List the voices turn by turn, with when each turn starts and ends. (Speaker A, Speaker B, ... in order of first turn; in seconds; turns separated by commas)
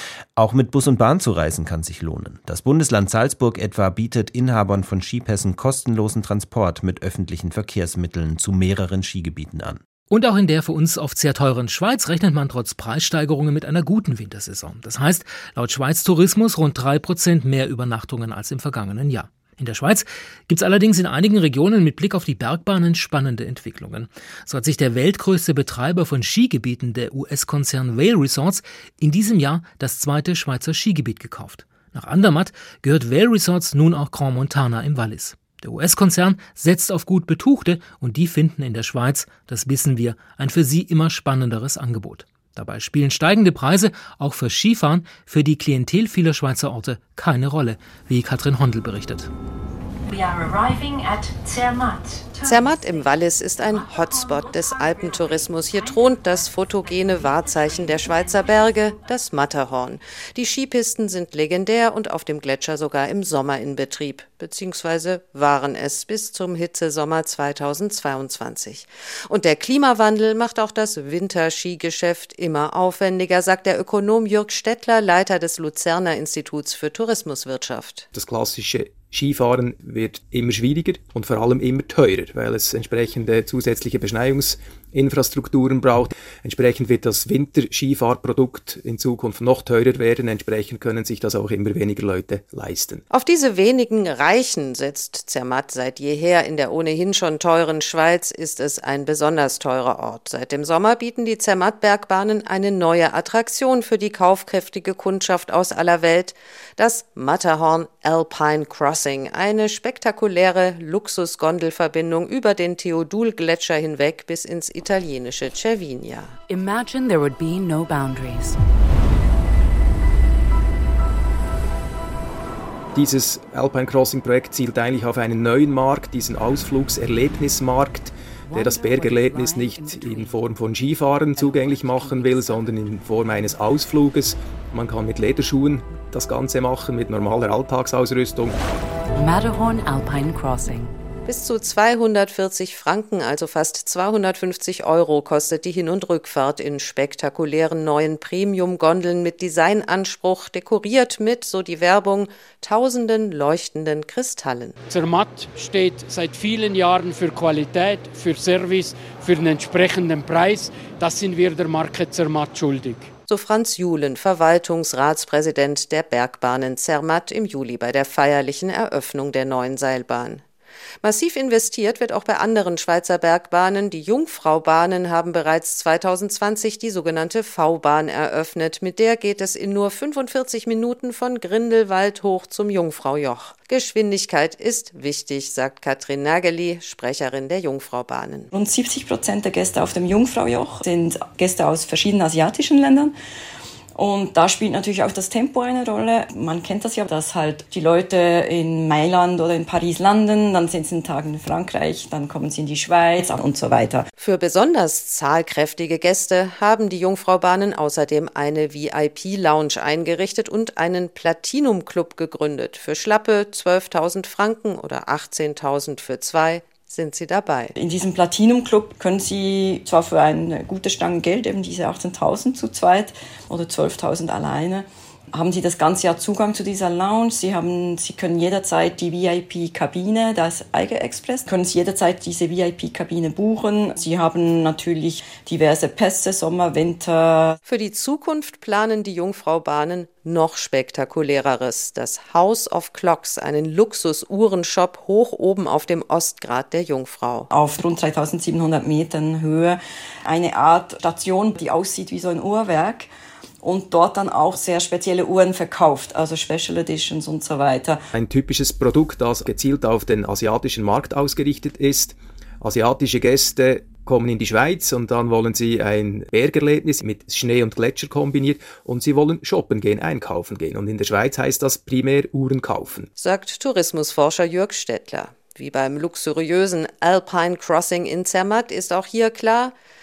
Speaker A: 0.3-9.8, Speaker B: 10.1-49.3, Speaker C: 50.0-59.0, Speaker D: 52.4-78.0, Speaker E: 78.1-93.0, Speaker D: 93.1-116.3, Speaker F: 116.5-118.5, Speaker E: 122.9-138.6, Speaker F: 128.5-130.5, Speaker F: 131.3-132.9, Speaker F: 139.1-140.9, Speaker D: 141.2-154.8, Speaker G: 154.9-163.1, Speaker D: 163.3-170.4, Speaker D: 171.0-188.5, Speaker H: 188.5-193.1, Speaker H: 193.9-204.1, Speaker D: 204.2-217.7, Speaker H: 217.8-237.6, Speaker D: 237.6-247.5, Speaker H: 247.5-253.1, Speaker H: 253.6-258.0, Speaker E: 258.1-273.1, Speaker D: 273.2-279.7